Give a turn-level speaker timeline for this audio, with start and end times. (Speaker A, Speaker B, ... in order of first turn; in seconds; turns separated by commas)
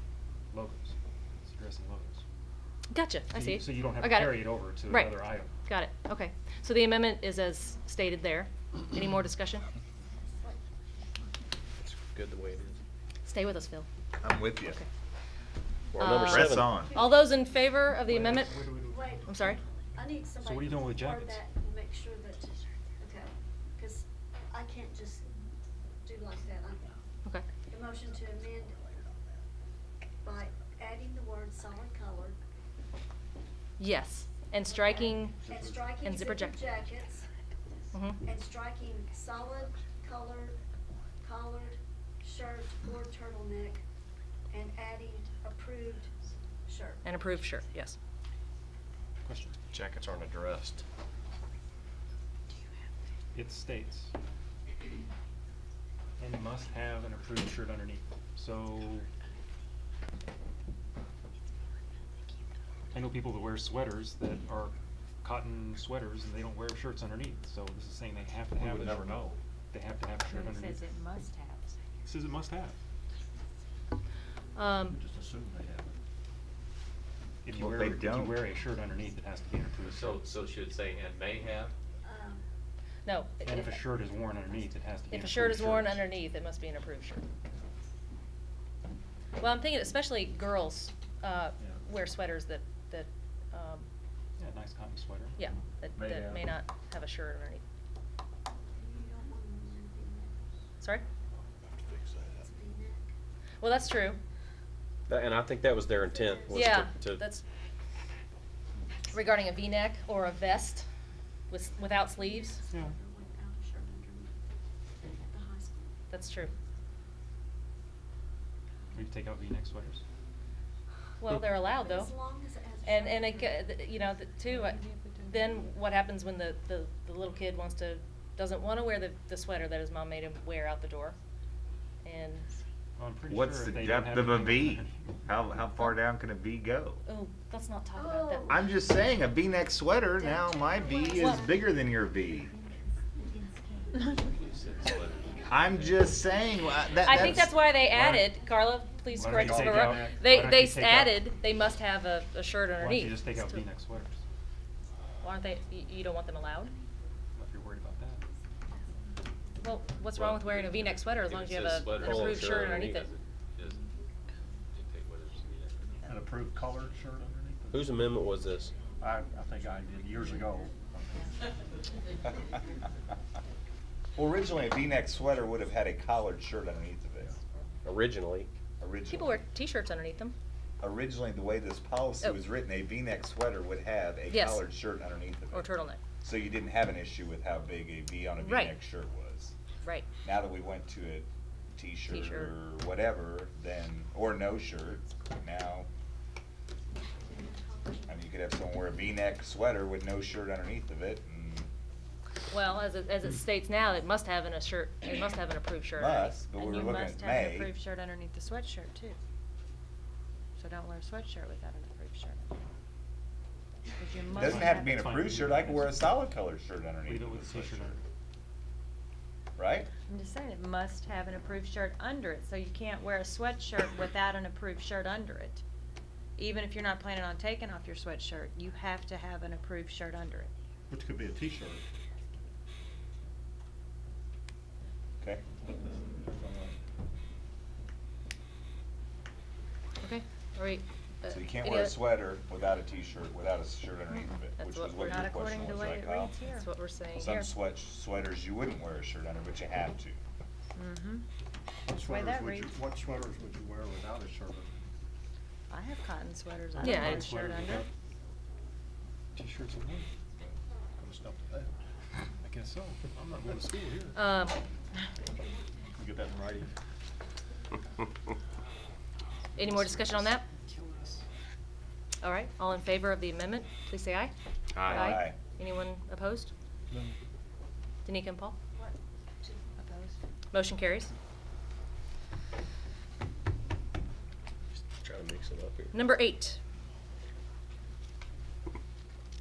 Speaker A: 0.5-0.9, Speaker A: 1.4-2.2, Speaker B: 2.9-9.7, Speaker A: 3.3-5.5, Speaker C: 11.8-12.8, Speaker B: 13.3-13.9, Speaker D: 14.2-14.8, Speaker C: 15.9-16.7, Speaker B: 16.0-18.5, Speaker D: 16.2-16.9, Speaker E: 16.8-17.2, Speaker A: 18.1-19.2, Speaker E: 18.9-25.3, Speaker B: 19.3-19.6, Speaker A: 20.4-21.4, Speaker E: 26.0-27.0, Speaker E: 27.7-28.9, Speaker E: 30.2-32.4, Speaker B: 33.8-35.4, Speaker E: 34.7-37.2, Speaker F: 35.4-36.0, Speaker B: 36.0-36.6, Speaker B: 37.9-38.2, Speaker E: 38.2-40.6, Speaker E: 41.2-43.8, Speaker E: 44.5-46.1, Speaker E: 46.7-47.3, Speaker B: 47.0-48.0, Speaker A: 49.2-49.6, Speaker C: 49.7-50.8, Speaker A: 53.3-54.1, Speaker A: 56.2-59.1, Speaker A: 62.9-70.8, Speaker F: 68.5-69.4, Speaker G: 70.2-71.8, Speaker A: 72.0-72.8, Speaker B: 74.6-75.0, Speaker F: 74.8-76.0, Speaker A: 77.4-80.2, Speaker D: 77.5-78.4, Speaker H: 79.8-81.7, Speaker E: 82.0-82.4, Speaker B: 83.1-83.8, Speaker A: 83.4-86.0, Speaker B: 85.1-87.2, Speaker B: 89.4-93.9, Speaker A: 94.4-95.4, Speaker B: 95.4-97.6, Speaker F: 96.0-96.5, Speaker E: 98.8-100.3, Speaker E: 102.4-103.1, Speaker B: 103.6-104.2, Speaker C: 105.1-107.2, Speaker E: 105.9-106.9, Speaker B: 106.6-107.4, Speaker B: 109.1-110.9, Speaker B: 111.5-112.6, Speaker E: 111.9-114.4, Speaker A: 112.7-113.0, Speaker E: 115.0-115.9, Speaker B: 116.1-116.5, Speaker A: 118.9-120.0, Speaker B: 121.2-122.2, Speaker E: 121.7-123.7, Speaker B: 122.8-131.2, Speaker G: 124.5-125.3, Speaker B: 132.0-132.5, Speaker A: 133.0-135.2, Speaker D: 133.3-137.0, Speaker B: 137.1-138.6, Speaker E: 137.9-138.8, Speaker D: 138.5-142.5, Speaker E: 140.2-141.7, Speaker H: 144.3-146.1, Speaker D: 145.5-147.6, Speaker B: 147.0-153.7, Speaker A: 147.9-148.3, Speaker A: 149.1-151.3, Speaker F: 149.3-150.2, Speaker A: 152.8-154.2, Speaker B: 155.2-156.8, Speaker A: 157.3-158.2, Speaker B: 159.6-163.1, Speaker H: 160.2-163.9, Speaker C: 162.0-163.1, Speaker H: 164.7-165.9, Speaker F: 166.1-168.0, Speaker C: 167.7-168.8, Speaker F: 169.0-171.3, Speaker D: 174.2-177.3, Speaker C: 177.8-178.5, Speaker D: 178.8-179.4, Speaker B: 179.1-180.3, Speaker D: 180.8-185.7, Speaker B: 184.3-184.7, Speaker B: 185.5-186.0, Speaker D: 186.2-189.5, Speaker B: 188.4-188.8, Speaker D: 190.2-195.9, Speaker B: 192.1-192.5, Speaker E: 197.3-198.0, Speaker D: 198.1-201.7, Speaker B: 202.5-206.5, Speaker D: 206.0-207.7, Speaker G: 206.5-209.2, Speaker G: 210.6-212.5, Speaker G: 214.0-215.1, Speaker A: 214.3-216.1, Speaker D: 214.3-218.0, Speaker A: 217.1-218.0, Speaker D: 219.6-219.9, Speaker G: 220.1-225.6, Speaker G: 226.4-230.5, Speaker F: 230.9-231.8, Speaker F: 236.0-236.8, Speaker B: 240.0-242.0, Speaker D: 241.3-246.4, Speaker B: 244.6-245.3, Speaker G: 244.9-246.7, Speaker B: 246.6-247.4, Speaker D: 247.2-250.2, Speaker G: 250.8-251.2, Speaker F: 251.9-254.8, Speaker G: 251.9-252.8, Speaker G: 255.7-257.9, Speaker A: 256.8-257.9, Speaker B: 256.8-257.3, Speaker A: 259.4-260.1, Speaker F: 261.0-261.7, Speaker A: 262.4-264.2, Speaker B: 264.1-264.6, Speaker F: 266.0-266.7, Speaker B: 269.6-270.5, Speaker A: 269.6-271.2, Speaker B: 272.2-274.3, Speaker B: 274.8-276.5, Speaker D: 274.9-275.4, Speaker F: 276.9-277.2, Speaker B: 278.1-278.6, Speaker E: 278.8-279.8, Speaker G: 279.8-280.2, Speaker B: 280.5-281.1, Speaker C: 285.0-285.9, Speaker B: 285.9-286.6